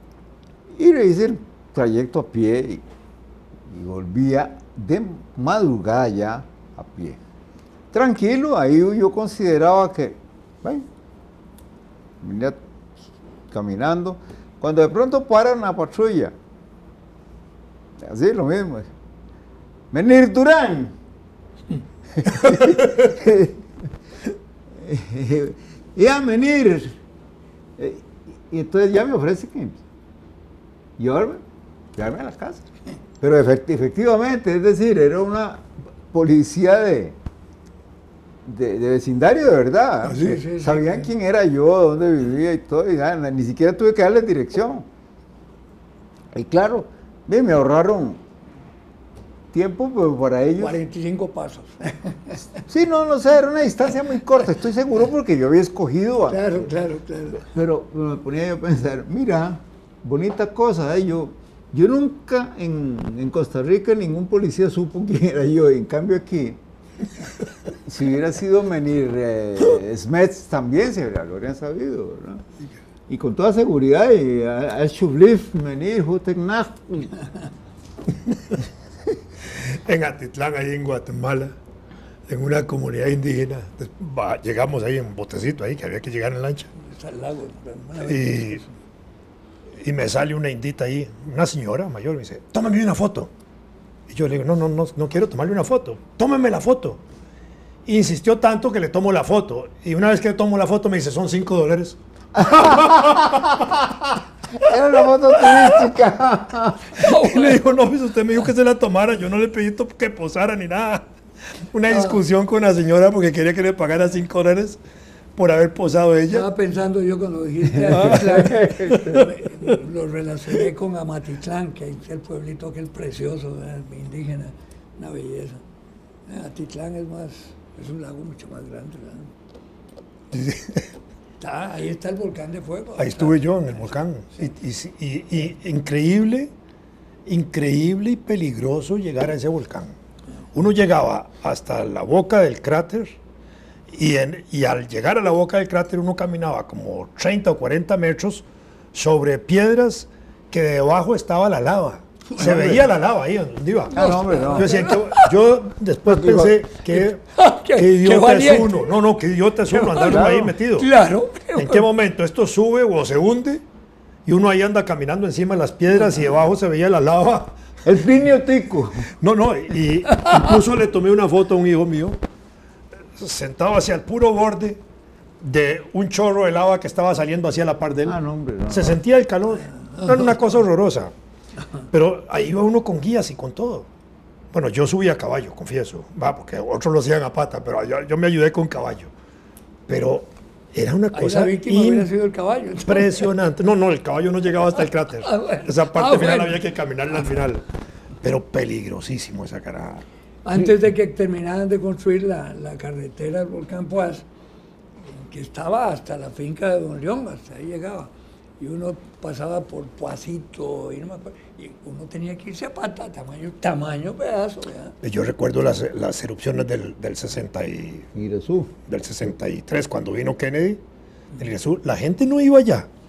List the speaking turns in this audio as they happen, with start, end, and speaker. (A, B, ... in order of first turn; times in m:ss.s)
0:00.7-0:02.8 A
0:03.7-0:07.2 A
0:07.9-0:10.9 A
0:12.2-0:12.6 A
0:13.5-0:16.4 A
0:18.0-0:18.9 A
0:19.9-0:21.0 A
0:22.2-0:23.6 A
0:24.7-0:27.0 A
0:27.8-0:29.8 A
0:31.0-0:31.4 A
0:31.9-0:32.6 A
0:33.2-0:37.2 A
0:38.4-0:44.9 A
0:40.1-0:41.1 B
0:40.1-0:40.4 C
0:46.3-0:48.2 A
0:49.5-0:50.8 A
0:50.6-0:52.5 B
0:52.7-0:56.7 A
0:56.3-0:57.4 B
0:57.4-1:06.6 A
1:07.8-1:12.4 A
1:13.1-1:17.1 A
1:19.5-1:21.6 C
1:22.3-1:26.7 C
1:26.8-1:28.7 B
1:28.0-1:28.6 C
1:29.8-1:33.3 C
1:34.1-1:37.0 C
1:37.9-1:43.8 C
1:42.4-1:46.9 A
1:45.3-1:45.9 C
1:46.9-1:47.7 B
1:47.0-1:51.0 C
1:51.7-1:54.8 C
1:51.9-1:52.2 B
1:55.4-1:56.5 C
1:56.3-2:05.6 B
1:57.7-1:59.3 A
1:57.9-1:59.3 C
2:06.3-2:09.3 B
2:10.3-2:10.9 C
2:11.4-2:13.9 B
2:13.0-2:16.5 C
2:17.3-2:19.9 C
2:20.5-2:23.2 C
2:23.9-2:37.2 C
2:32.4-2:32.9 A
2:33.9-2:34.7 A
2:33.9-2:35.3 B
2:36.1-2:36.6 A
2:37.3-2:38.9 B
2:37.8-2:40.9 C
2:39.7-2:40.2 B
2:40.0-2:40.6 A
2:40.8-2:41.9 B
2:41.6-2:43.6 C
2:44.3-2:47.6 C
2:47.8-2:49.1 A
2:49.2-2:52.2 C
2:50.1-2:50.5 B
2:53.2-2:54.8 C
2:55.4-2:58.2 C
2:58.0-2:59.0 A
2:58.7-3:01.1 C
2:59.8-3:00.3 B
3:01.9-3:03.9 C
3:04.5-3:09.1 C
3:09.9-3:12.1 C
3:11.1-3:13.3 B
3:12.8-3:17.6 C
3:15.2-3:16.6 B
3:18.2-3:20.0 C
3:20.4-3:24.3 B
3:25.1-3:35.0 B
3:35.0-3:38.1 C
3:38.1-3:38.7 A
3:38.9-3:40.8 C
3:41.4-3:42.9 C